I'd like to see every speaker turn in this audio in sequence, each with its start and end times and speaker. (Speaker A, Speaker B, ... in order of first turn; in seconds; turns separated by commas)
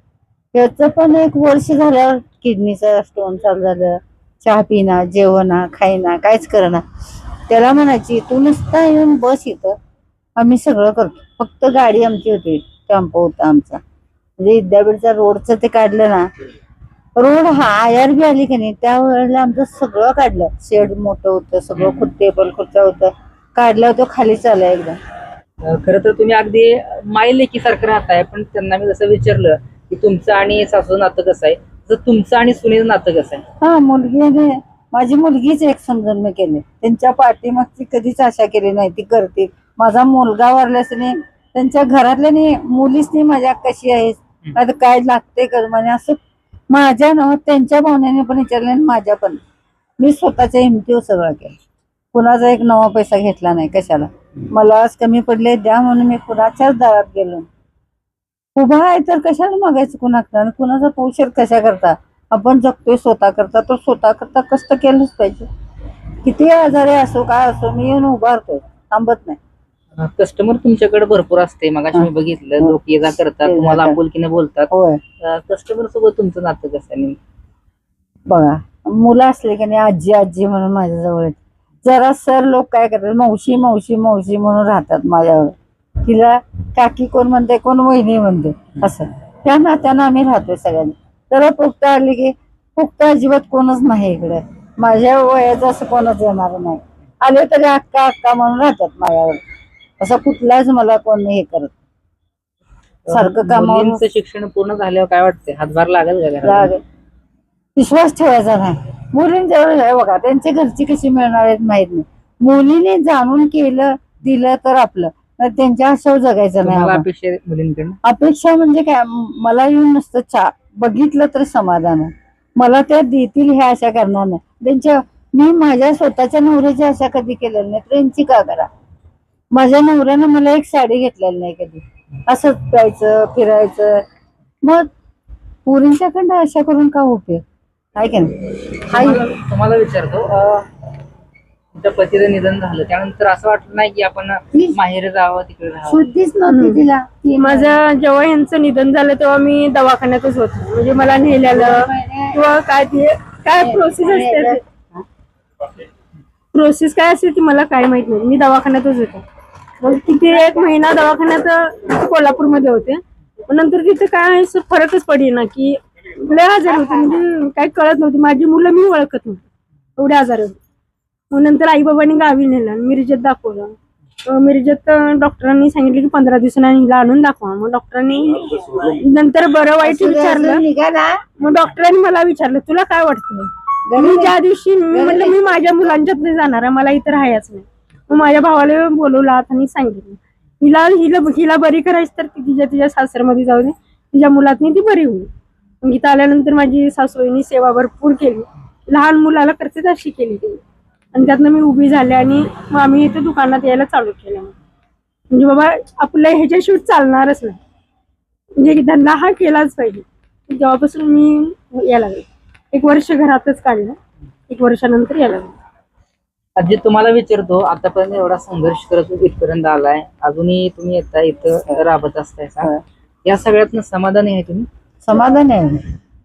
Speaker A: 0.5-6.8, Speaker A: 7.5-9.8, Speaker A: 10.3-13.8, Speaker A: 14.4-16.3, Speaker A: 17.1-25.0, Speaker B: 21.8-22.1, Speaker B: 25.6-33.4, Speaker A: 33.6-49.4, Speaker A: 50.0-51.6, Speaker A: 52.1-57.5, Speaker A: 58.5-65.5, Speaker A: 66.2-69.4, Speaker B: 70.0-74.7, Speaker A: 73.4-74.0, Speaker A: 74.7-75.0, Speaker B: 75.2-77.2, Speaker A: 78.3-99.4, Speaker A: 100.0-101.8, Speaker B: 103.0-106.7, Speaker A: 103.1-104.0, Speaker A: 106.4-106.8, Speaker A: 107.8-117.0, Speaker B: 116.6-118.0, Speaker A: 118.0-128.7, Speaker A: 129.5-134.0, Speaker A: 134.6-134.9, Speaker A: 135.7-137.4, Speaker A: 137.9-139.3, Speaker B: 138.8-140.7, Speaker B: 141.7-146.1, Speaker A: 144.5-144.8, Speaker A: 145.8-147.8, Speaker C: 146.5-146.8, Speaker C: 147.4-154.6, Speaker A: 151.5-152.4, Speaker A: 153.6-155.0, Speaker C: 156.5-159.2, Speaker C: 159.8-169.4, Speaker C: 170.0-170.6, Speaker C: 171.3-180.6, Speaker A: 179.8-181.2, Speaker C: 181.4-195.3, Speaker A: 183.9-184.3, Speaker A: 184.9-185.6, Speaker C: 195.8-200.6, Speaker C: 201.1-204.5, Speaker C: 205.3-207.6, Speaker C: 208.6-214.0, Speaker C: 214.5-215.6, Speaker B: 216.6-222.7, Speaker B: 223.2-224.7, Speaker A: 225.0-225.8